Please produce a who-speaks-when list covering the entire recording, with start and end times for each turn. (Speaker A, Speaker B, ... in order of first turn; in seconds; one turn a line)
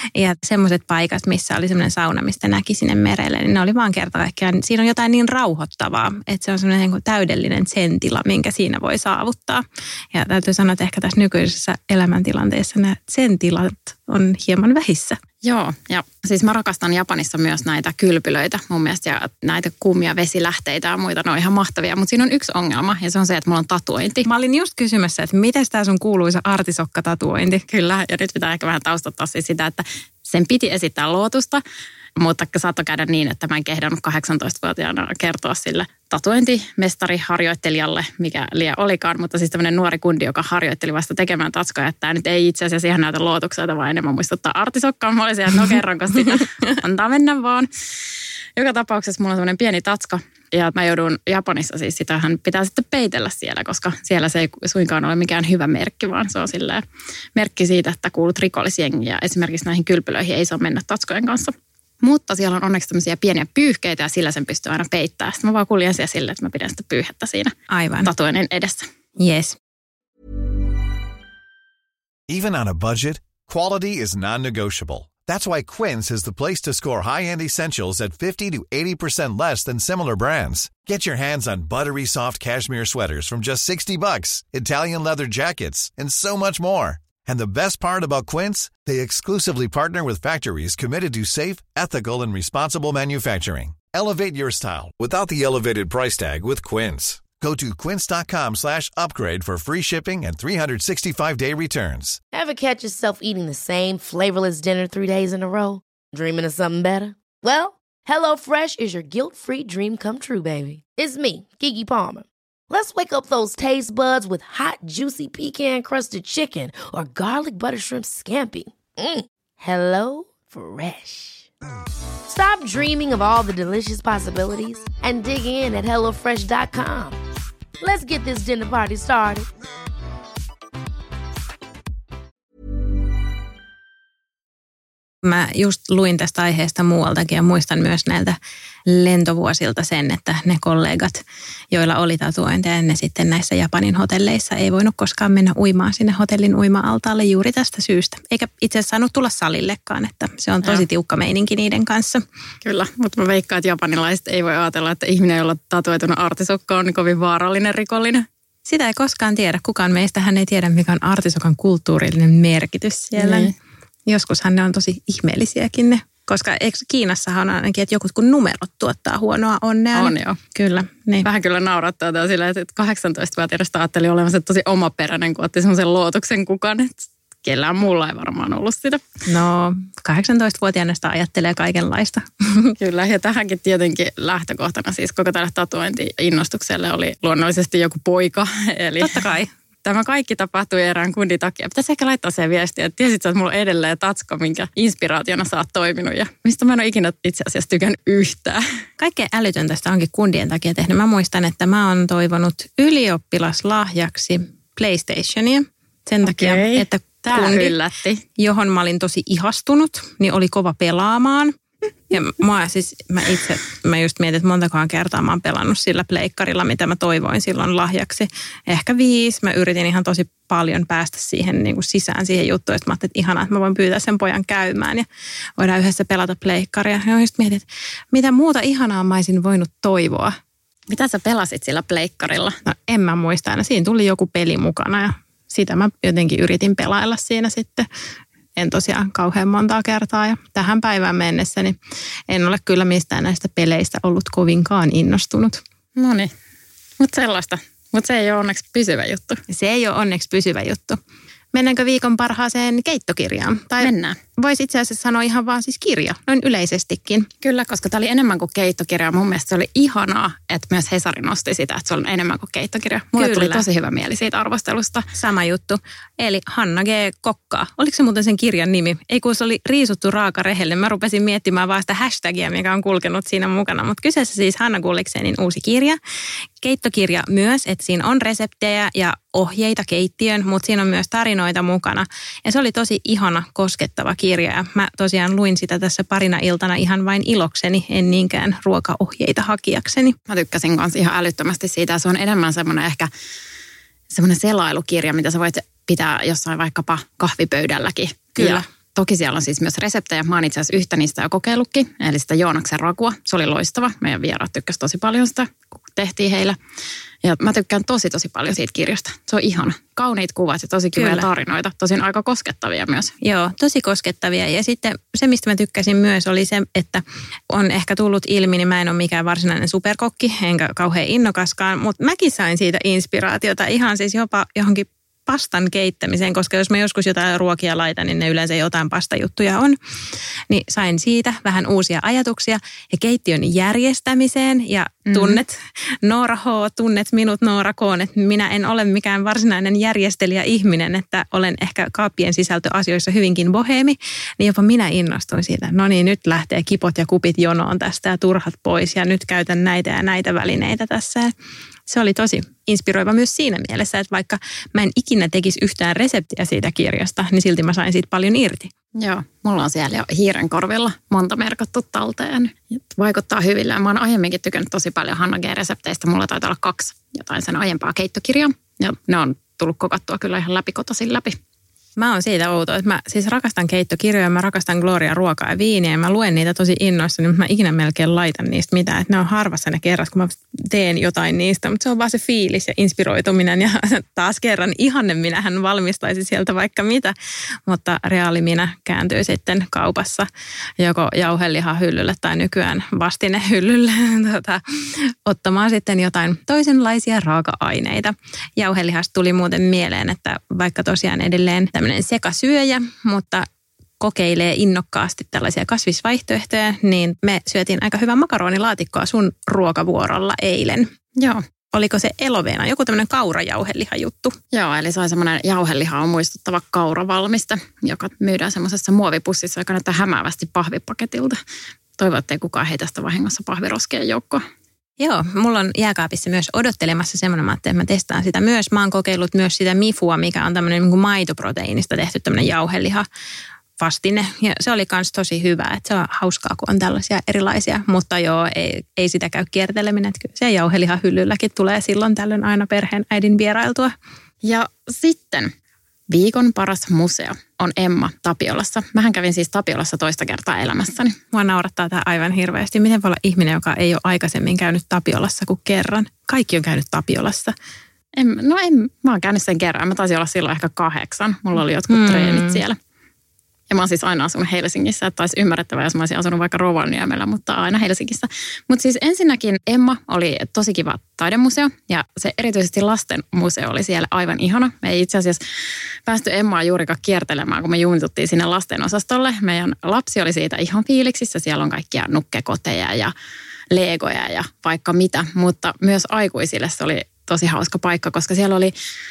Speaker A: 0.1-15.2
Speaker B: 15.4-24.2
Speaker A: 24.2-27.6
Speaker B: 27.7-31.6
Speaker B: 32.2-47.7
Speaker B: 48.5-56.8
Speaker B: 57.3-68.8
Speaker A: 67.7-68.1
Speaker A: 69.2-69.6
Speaker C: 72.3-102.2
Speaker D: 102.3-121.5
Speaker D: 122.2-127.2
Speaker D: 127.8-129.5
Speaker A: 135.2-152.2
Speaker B: 152.6-158.2
Speaker A: 158.7-163.5
Speaker B: 163.2-163.5
Speaker A: 164.1-171.3
Speaker B: 169.9-170.4
Speaker B: 171.2-179.0
Speaker A: 179.2-182.8
Speaker B: 182.8-189.2
Speaker A: 189.0-189.5
Speaker B: 189.8-198.6
Speaker A: 199.0-207.7
Speaker B: 206.2-208.2
Speaker A: 208.4-211.5
Speaker A: 212.1-225.1
Speaker A: 225.6-230.3
Speaker B: 230.9-232.6
Speaker A: 232.6-237.9
Speaker A: 238.6-241.8
Speaker A: 242.3-245.6
Speaker B: 245.9-246.3
Speaker B: 247.0-249.4
Speaker A: 249.5-251.0
Speaker A: 251.5-257.3
Speaker B: 253.8-254.2
Speaker B: 257.4-265.1
Speaker A: 263.1-263.6
Speaker A: 265.1-276.0
Speaker A: 276.6-290.2
Speaker B: 290.3-293.1
Speaker B: 294.1-306.6
Speaker A: 298.4-298.6
Speaker B: 307.2-313.1
Speaker A: 310.9-311.3
Speaker A: 313.2-329.8
Speaker A: 330.5-351.3
Speaker B: 335.1-335.4
Speaker A: 351.9-358.7
Speaker B: 358.9-371.4
Speaker A: 372.0-387.1
Speaker A: 387.6-390.3
Speaker A: 390.8-403.4
Speaker A: 404.0-410.9
Speaker B: 411.2-411.4
Speaker A: 411.7-414.4
Speaker B: 414.5-421.4
Speaker B: 422.0-424.4
Speaker A: 425.0-433.0
Speaker A: 433.8-443.9
Speaker B: 444.4-445.5
Speaker B: 446.1-451.2
Speaker A: 451.3-457.5
Speaker B: 458.2-462.8
Speaker A: 461.9-462.6
Speaker B: 463.7-475.4
Speaker B: 476.1-483.1
Speaker B: 483.7-488.7